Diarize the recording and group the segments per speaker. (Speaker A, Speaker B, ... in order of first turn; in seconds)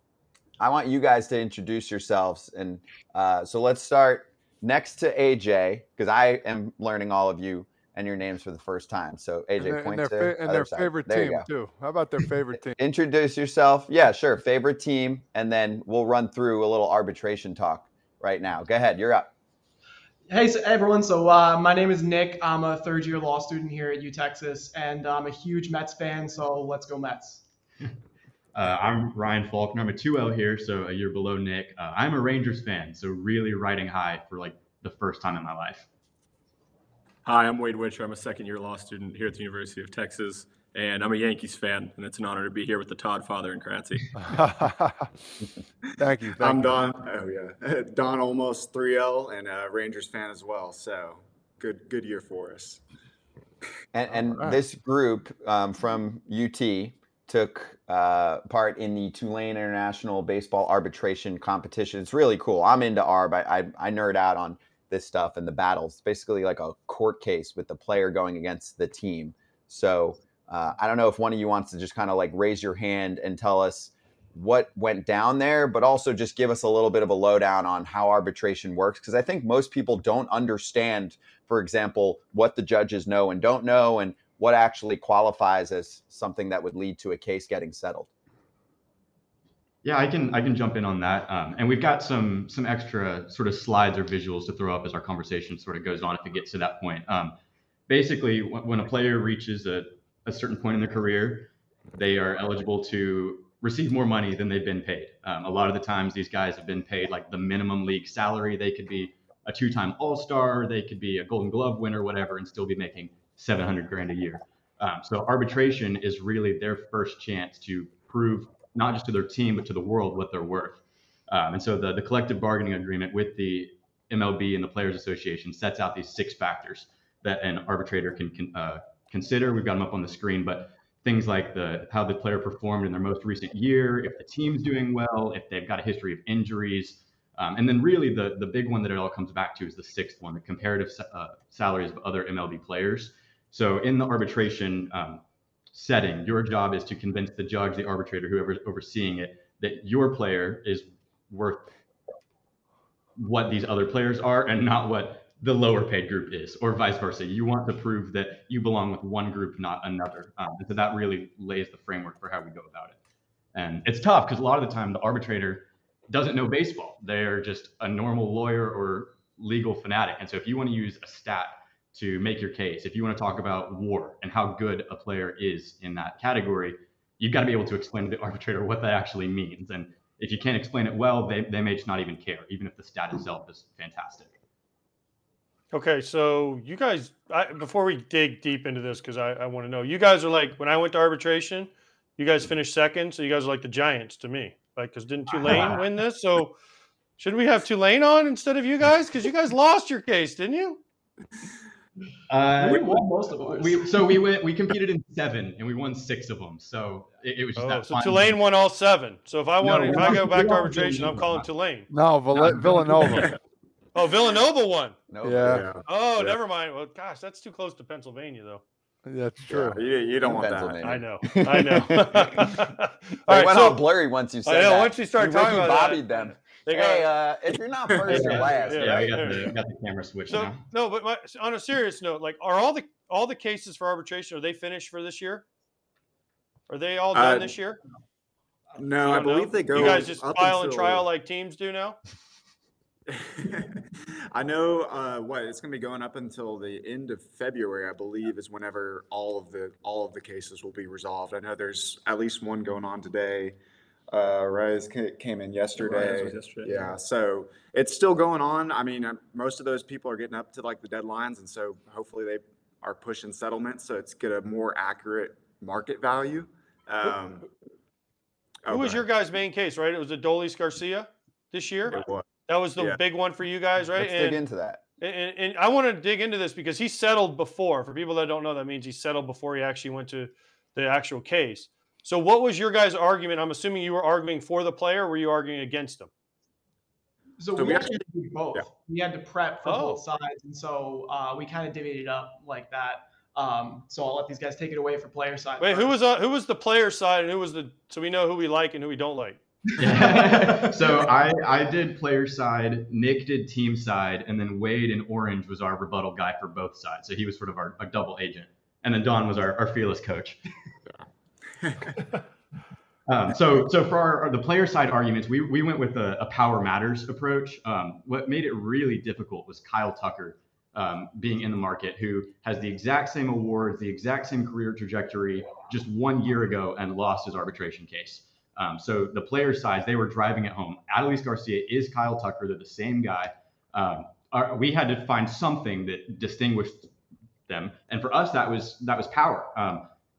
Speaker A: 0.6-11.5, 12.6-19.3, 53.9-88.1, 215.1-215.7, 219.5-222.5, 223.3-229.0, 273.9-274.8
Speaker B: 9.6-12.8, 44.2-46.8, 54.2-54.5, 211.9-213.3, 215.2-215.7, 219.1-219.8
Speaker C: 20.3-27.4, 202.6-204.2, 287.4-295.9, 300.0-300.7
Speaker D: 28.6-35.9, 89.8-97.3, 97.9-145.2, 145.7-151.7, 153.2-163.0, 163.6-184.3, 202.3-208.4, 209.6-211.5, 228.1-230.6, 299.8-310.4, 313.1-336.9, 337.5-339.9
Speaker E: 37.2-44.2, 255.8-256.9
Speaker F: 46.4-52.8, 215.5-216.3, 219.7-221.0, 228.0-228.3, 237.1-237.5, 238.8-241.1, 243.1-253.6, 254.1-267.5, 268.7-269.1, 271.9-273.0, 287.6-288.0, 311.6-312.0
Speaker G: 185.7-196.6, 197.2-200.8, 207.6-211.9, 212.7-213.3, 213.9-215.0, 215.9-218.6, 220.8-223.8, 224.4-226.0, 226.7-227.1, 228.1-229.5, 230.3-235.4, 236.7-237.8, 239.0-242.0, 268.7-274.4, 275.0-286.1, 289.6-290.0, 295.6-299.4